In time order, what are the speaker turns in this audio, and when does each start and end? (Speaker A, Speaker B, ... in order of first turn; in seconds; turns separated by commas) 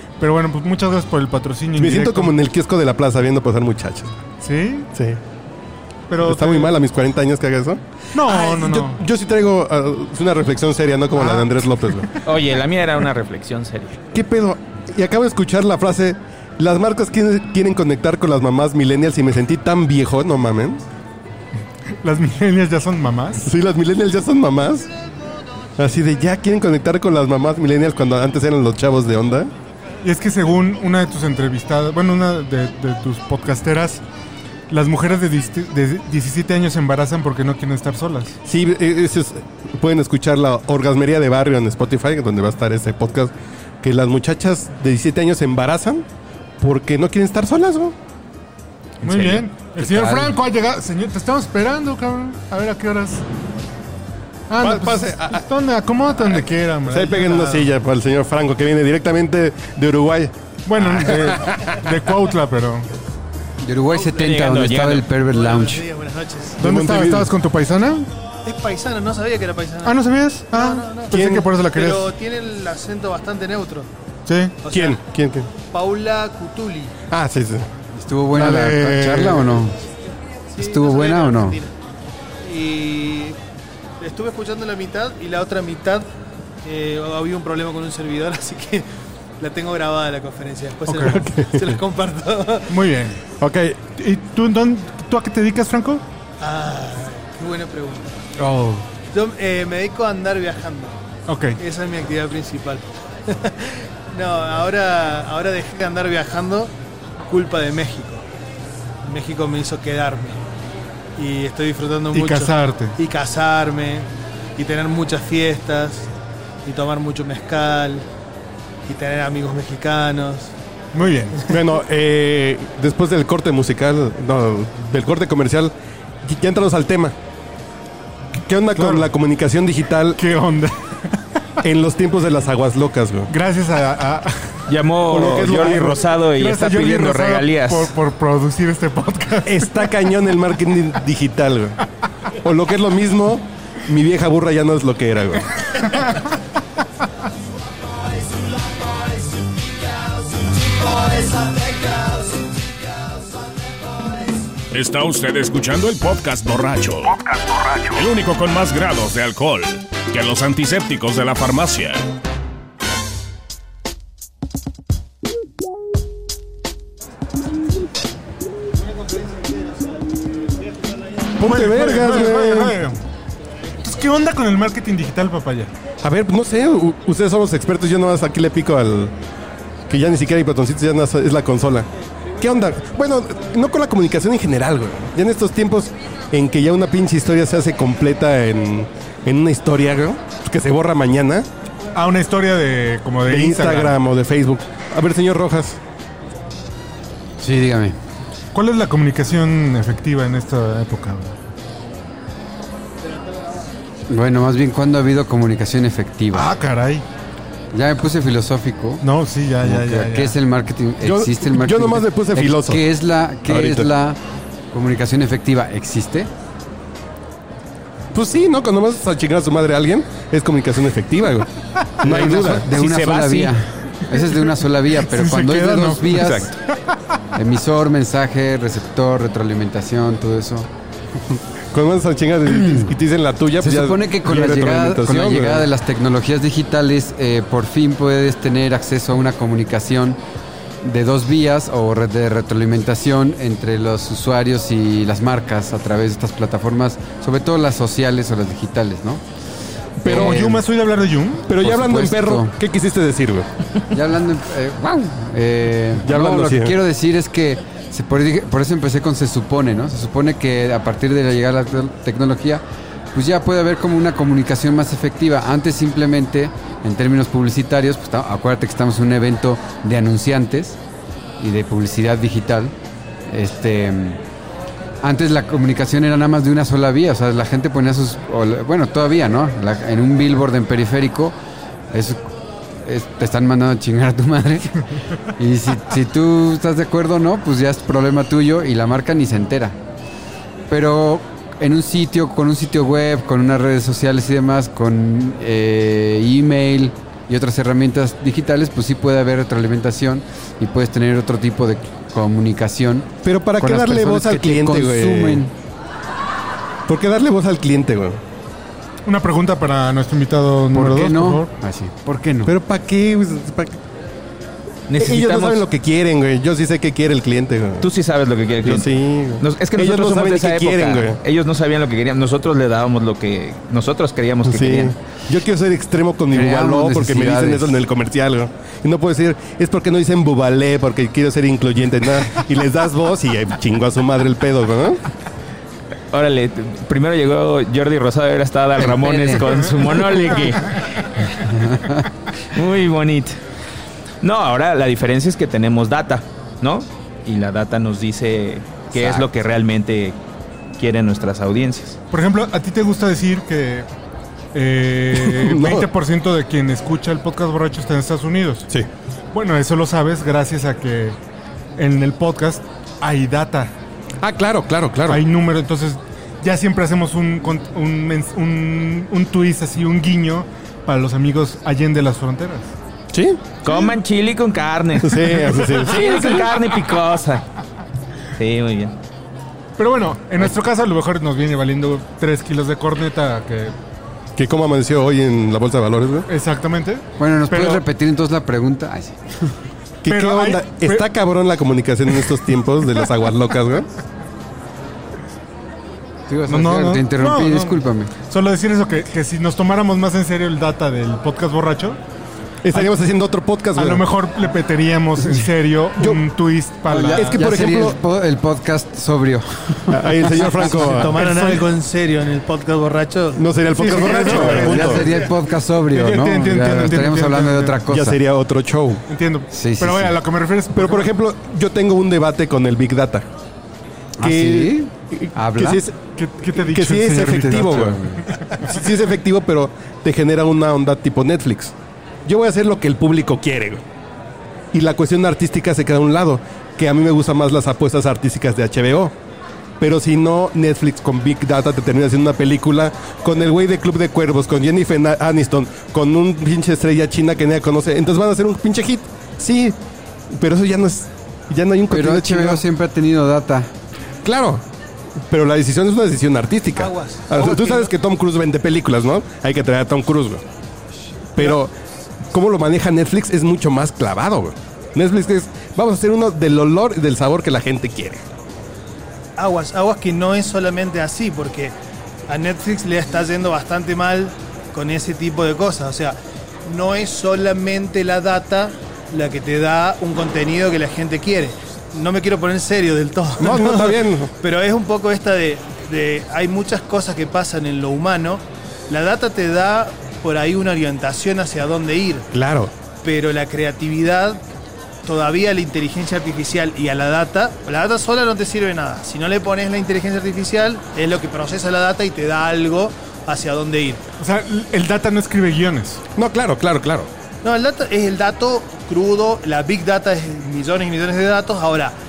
Speaker A: 0.2-2.4, Speaker B: 1.8-4.1, Speaker A: 4.4-4.9, Speaker B: 4.9-5.2, Speaker A: 6.1-6.7, Speaker B: 6.2-12.2, Speaker A: 8.1-9.0, Speaker A: 11.2-11.5, Speaker C: 12.2-14.0, Speaker B: 14.1-20.8, Speaker A: 22.0-23.5, Speaker B: 23.4-24.9, Speaker B: 25.8-29.5, Speaker A: 30.0-34.0, Speaker A: 34.7-38.4, Speaker B: 38.5-46.0, Speaker B: 46.6-48.0, Speaker D: 49.0-50.3, Speaker A: 49.0-53.2, Speaker B: 49.1-49.4, Speaker A: 54.5-57.7, Speaker B: 54.6-55.4, Speaker B: 56.9-61.9, Speaker A: 60.7-62.9, Speaker D: 63.6-65.8, Speaker C: 64.2-65.1, Speaker E: 65.2-66.6, Speaker B: 66.6-67.3, Speaker A: 66.6-68.1, Speaker E: 68.4-73.9, Speaker A: 69.8-72.0, Speaker B: 71.1-71.5, Speaker A: 74.2-74.6, Speaker E: 74.6-75.0, Speaker B: 74.7-75.5, Speaker E: 75.6-76.9, Speaker B: 77.1-77.7, Speaker D: 77.9-79.8, Speaker A: 78.4-79.1, Speaker B: 78.8-79.6, Speaker E: 80.5-81.7, Speaker D: 80.6-81.6, Speaker E: 82.4-83.4, Speaker E: 84.0-86.1, Speaker E: 86.6-88.9, Speaker E: 89.4-92.8, Speaker B: 91.1-91.8, Speaker A: 92.7-93.2, Speaker B: 93.4-93.8, Speaker A: 93.9-96.0, Speaker E: 96.4-98.2, Speaker A: 98.4-98.9, Speaker E: 99.1-101.0, Speaker A: 101.3-101.6, Speaker E: 101.6-108.2, Speaker E: 109.0-110.4, Speaker E: 111.2-116.1, Speaker A: 112.1-113.0, Speaker E: 116.6-118.1, Speaker E: 118.8-120.5, Speaker A: 120.9-121.5, Speaker B: 121.5-125.7, Speaker B: 126.2-127.2, Speaker B: 128.4-130.2, Speaker A: 128.7-129.1, Speaker A: 130.2-131.1, Speaker B: 131.6-133.3, Speaker A: 133.3-134.6, Speaker C: 134.7-137.9, Speaker B: 135.1-136.0, Speaker A: 136.3-139.9, Speaker B: 139.4-141.8, Speaker B: 142.4-145.8, Speaker F: 154.7-157.2, Speaker F: 157.8-162.0, Speaker B: 171.3-172.8, Speaker A: 171.4-173.0, Speaker A: 173.8-175.7, Speaker B: 176.0-179.1, Speaker B: 179.9-181.9, Speaker B: 182.4-191.5, Speaker A: 191.9-193.9, Speaker B: 193.3-195.8, Speaker D: 197.4-198.0, Speaker A: 198.5-201.3, Speaker D: 204.1-206.5, Speaker A: 206.3-207.0, Speaker D: 207.7-209.0, Speaker A: 209.0-210.3, Speaker D: 209.6-214.2, Speaker B: 211.0-212.8, Speaker B: 213.5-213.9, Speaker D: 214.7-216.3, Speaker B: 218.1-222.7, Speaker D: 222.0-226.5, Speaker C: 222.6-223.5, Speaker A: 224.9-226.5, Speaker D: 227.3-230.7, Speaker B: 231.3-235.7, Speaker D: 232.4-232.9, Speaker D: 233.6-240.2, Speaker D: 240.8-249.2, Speaker B: 250.0-250.4, Speaker D: 250.0-250.7, Speaker A: 250.0-251.5, Speaker B: 251.5-253.5, Speaker D: 251.6-252.5, Speaker D: 253.9-262.6, Speaker B: 256.0-256.7, Speaker D: 263.1-270.8, Speaker D: 271.4-272.7, Speaker D: 273.3-274.2, Speaker D: 275.0-281.4, Speaker D: 281.9-282.3, Speaker D: 282.8-284.8, Speaker D: 285.4-289.8, Speaker D: 290.7-305.5, Speaker B: 303.2-305.4, Speaker B: 306.9-308.2, Speaker A: 309.0-311.5, Speaker D: 310.7-312.5, Speaker B: 312.4-313.8, Speaker C: 314.9-315.6, Speaker B: 315.0-317.9, Speaker C: 317.8-325.0, Speaker B: 318.6-321.2, Speaker B: 324.4-335.0, Speaker D: 326.3-327.8, Speaker C: 336.1-341.1, Speaker D: 338.8-339.6, Speaker D: 341.3-342.0, Speaker C: 342.5-343.4, Speaker C: 344.2-350.2, Speaker D: 348.9-349.2, Speaker C: 350.8-352.0, Speaker A: 352.1-353.9, Speaker A: 354.5-358.7, Speaker B: 355.2-355.9, Speaker A: 359.3-361.2, Speaker A: 361.8-363.7, Speaker B: 364.2-365.2, Speaker A: 365.1-372.7, Speaker B: 373.1-373.8, Speaker C: 373.6-377.4, Speaker B: 375.0-376.5, Speaker C: 378.4-378.9, Speaker A: 379.8-383.7, Speaker B: 384.4-386.3, Speaker A: 386.3-387.8, Speaker D: 387.2-389.2, Speaker B: 390.0-393.9, Speaker A: 390.1-391.0, Speaker D: 396.3-398.1, Speaker A: 396.5-402.0, Speaker B: 402.6-404.1, Speaker A: 403.7-407.4, Speaker B: 406.0-406.2, Speaker D: 406.9-410.8, Speaker B: 406.9-408.0, Speaker B: 409.9-411.2, Speaker E: 410.6-413.4, Speaker A: 410.8-411.6, Speaker B: 413.4-415.1, Speaker A: 413.7-415.1, Speaker E: 413.9-414.9, Speaker D: 414.5-418.2, Speaker A: 415.9-417.8, Speaker B: 417.9-419.0, Speaker A: 419.1-421.1, Speaker D: 419.5-420.1, Speaker B: 420.7-423.3, Speaker D: 424.2-425.8, Speaker B: 424.2-426.0, Speaker A: 426.1-428.5, Speaker B: 426.5-428.0, Speaker D: 427.6-428.2, Speaker B: 428.5-431.7, Speaker B: 432.2-433.8, Speaker B: 434.7-439.1, Speaker B: 439.8-449.8, Speaker B: 450.3-452.6, Speaker D: 451.9-453.7, Speaker B: 454.2-454.6, Speaker B: 455.3-460.4, Speaker E: 456.8-457.9, Speaker B: 461.3-461.7, Speaker B: 462.3-468.2, Speaker E: 469.4-471.7, Speaker E: 472.3-492.3, Speaker B: 483.4-484.3, Speaker B: 492.3-492.7, Speaker E: 493.0-494.4, Speaker E: 495.0-504.0, Speaker A: 504.2-506.0, Speaker B: 506.1-507.1, Speaker E: 507.4-511.9